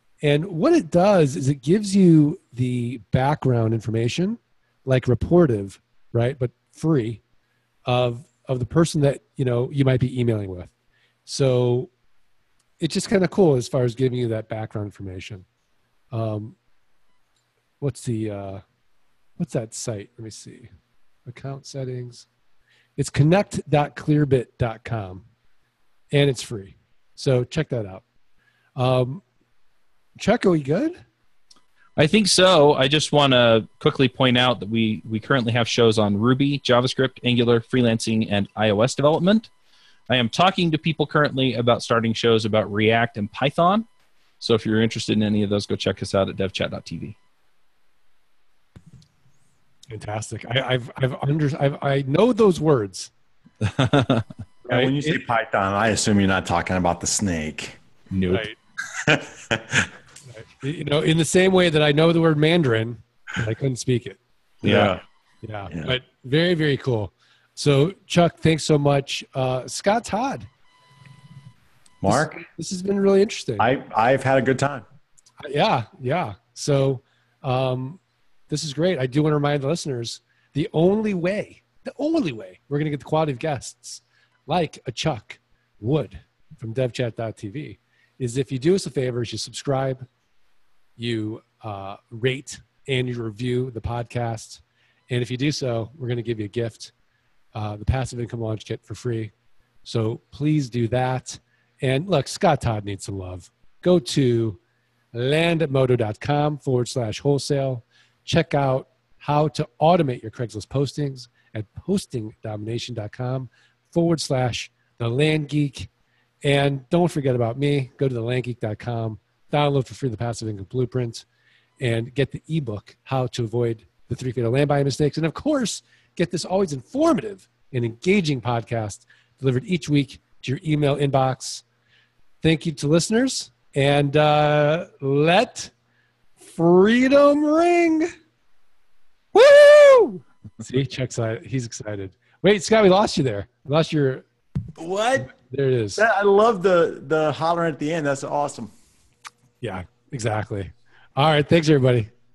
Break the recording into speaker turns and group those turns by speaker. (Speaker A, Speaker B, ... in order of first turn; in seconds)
Speaker A: 0.2-7.2, 7.9-10.7, 11.2-11.9, 12.8-15.4, 16.1-16.6, 17.8-18.6, 19.4-20.7, 21.2-22.3, 23.0-25.2, 26.1-28.0, 28.8-29.2, 30.2-31.0, 49.9-53.1, 54.7-55.2, 58.3-58.5, 60.3-64.2, 65.4-70.5, 72.1-73.7, 75.4-90.1, 91.0-96.9, 97.5-99.3, 99.8-104.6, 105.1-115.9, 116.4-121.2, 121.8-131.6, 132.4-135.7, 136.4-138.1, 140.6-144.2, 145.3-146.0, 149.6-152.1
Speaker B: 32.0-39.5, 40.1-43.9, 44.4-47.1, 53.6-54.2, 58.1-58.5, 64.6-65.0, 139.3-140.2
Speaker C: 54.6-57.8, 59.0-59.9, 64.6-65.0, 65.7-66.0, 72.0-72.4, 73.6-74.8, 144.8-145.3, 146.0-148.7